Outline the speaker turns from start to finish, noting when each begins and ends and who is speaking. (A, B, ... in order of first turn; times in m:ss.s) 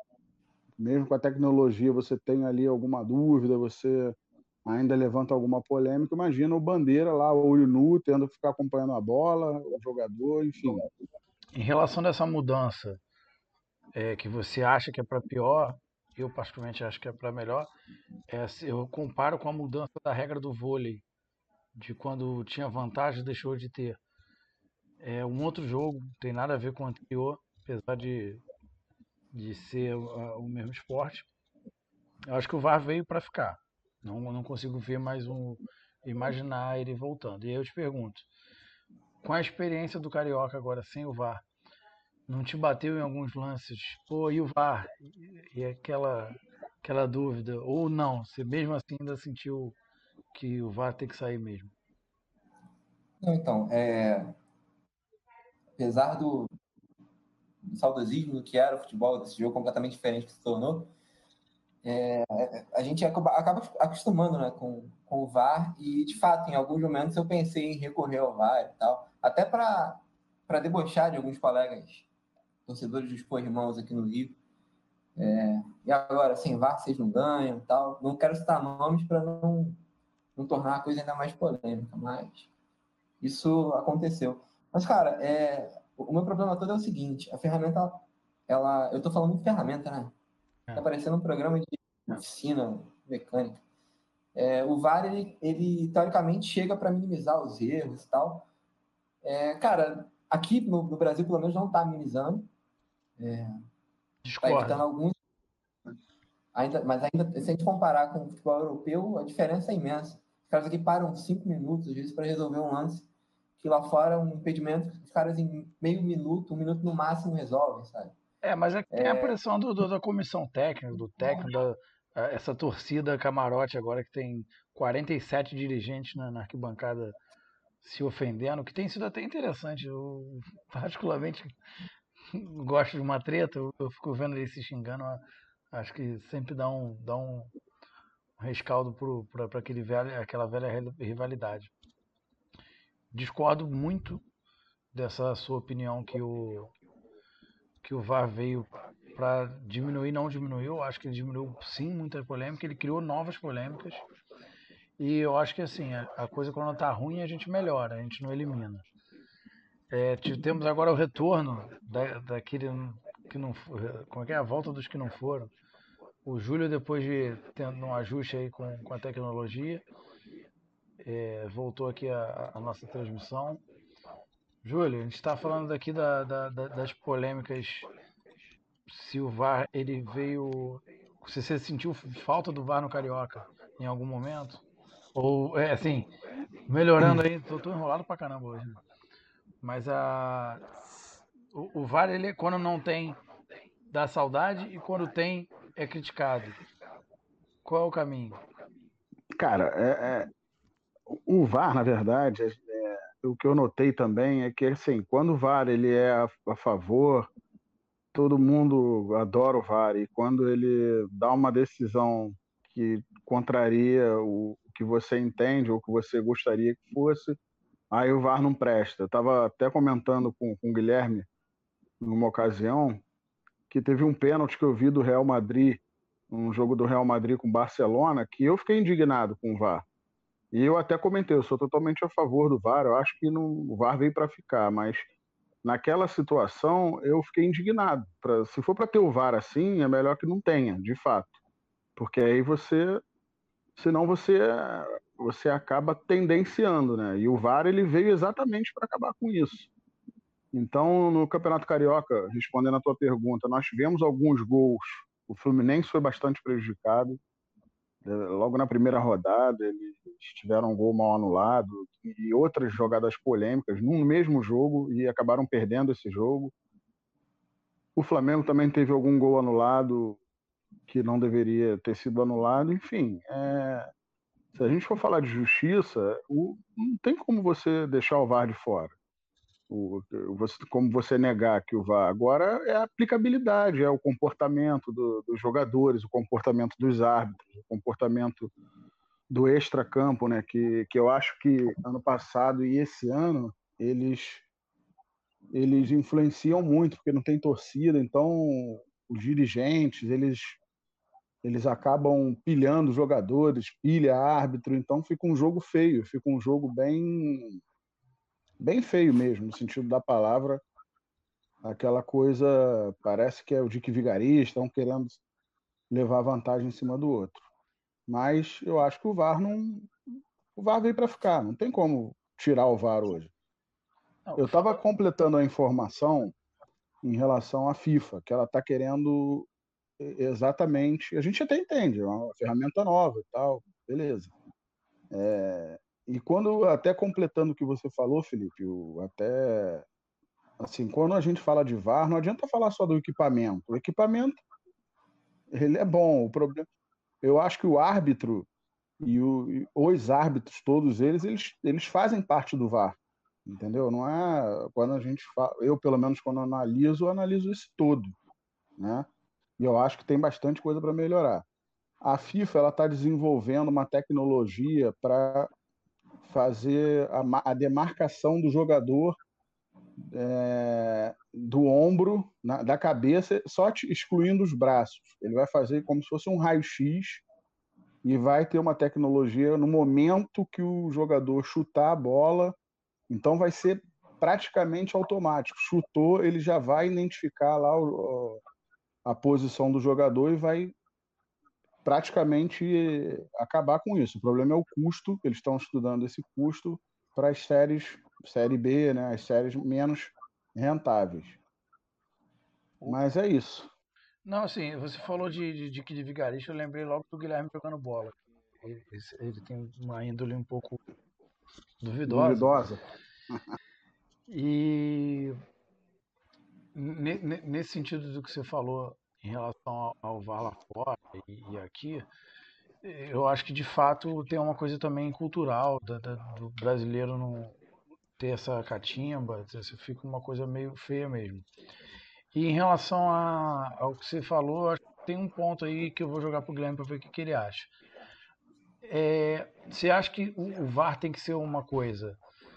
0:00.8-0:10.9 A
0:11.6-0:13.0 B
0:13.9-0:17.7 B
0:18.3-0:21.0 B
0:21.8-0:24.0 B
0:25.0-0:28.4 B
0:29.3-0:31.3 B
0:32.3-0:38.3 B
0:39.2-0:41.4 B
0:42.3-0:49.8 B
0:50.3-0:51.7 B
0:53.2-0:54.4 C
0:55.8-0:56.5 C
0:57.7-1:00.9 C
1:01.8-1:12.1 C
1:12.7-1:14.4 C
1:15.2-1:19.8 C
1:20.4-1:22.5 C
1:23.2-1:30.1 C
1:30.8-1:33.6 C
1:34.4-1:38.5 C
1:39.2-1:42.5 C
1:43.2-1:43.6 C
1:44.2-1:44.8 B
1:44.4-1:45.2 C
1:46.5-1:53.1 C
1:53.6-1:58.2 C
1:58.4-2:07.1 B
1:58.9-1:59.4 C
2:07.8-2:11.5 B
2:12.3-2:17.5 B
2:18.4-2:21.7 B
2:23.1-2:24.2 B
2:24.9-2:26.7 B
2:27.8-2:34.0 B
2:35.0-2:38.8 B
2:39.9-2:45.5 B
2:46.2-2:49.8 B
2:51.0-2:53.6 B
2:54.6-2:57.9 B
2:58.9-3:04.6 B
3:05.2-3:06.1 B
3:06.7-3:08.8 B
3:07.0-3:07.2 A
3:09.6-3:13.2 B
3:13.9-3:16.6 B
3:17.6-3:18.4 B
3:19.4-3:20.3 A
3:21.1-3:27.3 A
3:28.1-3:37.4 A
3:37.9-3:41.3 A
3:42.0-3:43.0 A
3:43.7-3:49.8 A
3:50.5-3:55.1 A
3:55.6-4:01.3 A
4:02.0-4:03.0 A
4:03.8-4:09.7 A
4:10.5-4:17.2 A
4:18.0-4:26.5 A
4:28.0-4:30.2 A
4:30.9-4:33.9 A
4:34.6-4:39.0 A
4:39.7-4:48.5 A
4:49.3-4:54.4 A
4:55.5-5:00.6 A
5:01.4-5:07.6 A
5:08.6-5:10.6 A
5:11.6-5:15.2 A
5:15.9-5:17.4 A
5:18.1-5:19.9 A
5:20.6-5:23.3 A
5:24.3-5:24.8 B
5:24.4-5:26.3 A
5:27.0-5:29.5 A
5:30.0-5:34.3 A
5:35.1-5:39.9 A
5:40.6-5:44.4 A
5:45.5-5:46.7 A
5:47.2-5:48.5 A
5:49.0-5:58.2 A
5:58.8-5:59.1 A
5:59.6-6:01.5 A
6:02.0-6:05.5 A
6:06.2-6:09.2 A
6:10.0-6:17.2 A
6:18.0-6:22.6 A
6:23.1-6:28.4 A
6:29.0-6:30.7 A
6:31.8-6:41.4 A
6:42.9-6:43.7 A
6:44.2-6:50.8 B
6:51.8-6:52.6 B
6:52.1-6:52.8 A
6:54.3-6:55.4 B
6:56.8-7:02.1 B
7:02.8-7:07.6 B
7:08.2-7:11.5 B
7:12.3-7:17.7 B
7:18.8-7:22.2 B